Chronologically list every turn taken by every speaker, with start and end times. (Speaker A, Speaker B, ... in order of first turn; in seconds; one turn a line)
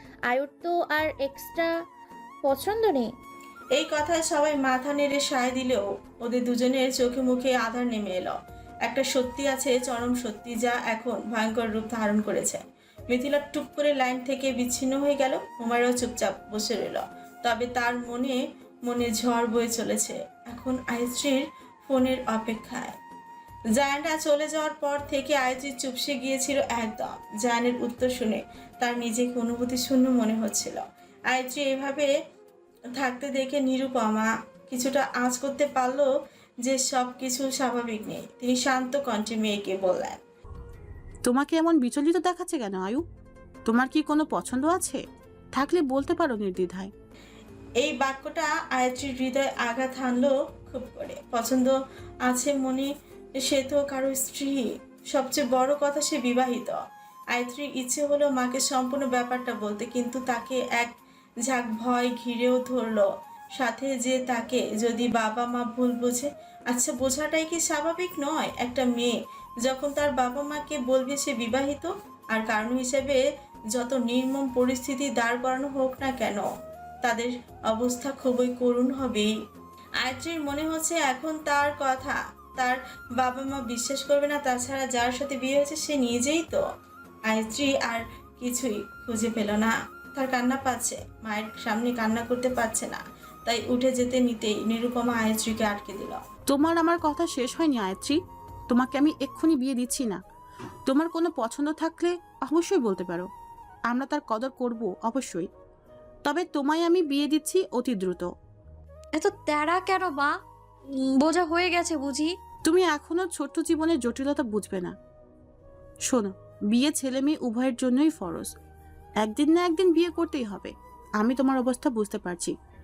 Speaker A: 0.3-1.7
Speaker A: 2.4-3.1
Speaker B: 3.7-23.0
Speaker B: 23.7-32.1
Speaker B: 33.0-36.1
Speaker B: 36.6-40.2
Speaker C: 41.2-43.0
Speaker C: 43.7-45.0
Speaker C: 45.5-46.9
Speaker B: 47.8-56.8
Speaker B: 57.3-76.5
Speaker B: 77.0-79.3
Speaker B: 80.0-86.6
Speaker B: 87.3-96.2
Speaker C: 96.5-98.2
Speaker C: 98.7-100.2
Speaker C: 100.9-103.3
Speaker C: 103.9-105.5
Speaker C: 106.2-108.3
Speaker D: 109.2-110.3
Speaker D: 110.9-112.3
Speaker C: 112.7-114.9
Speaker C: 116.1-118.5
Speaker C: 119.2-122.5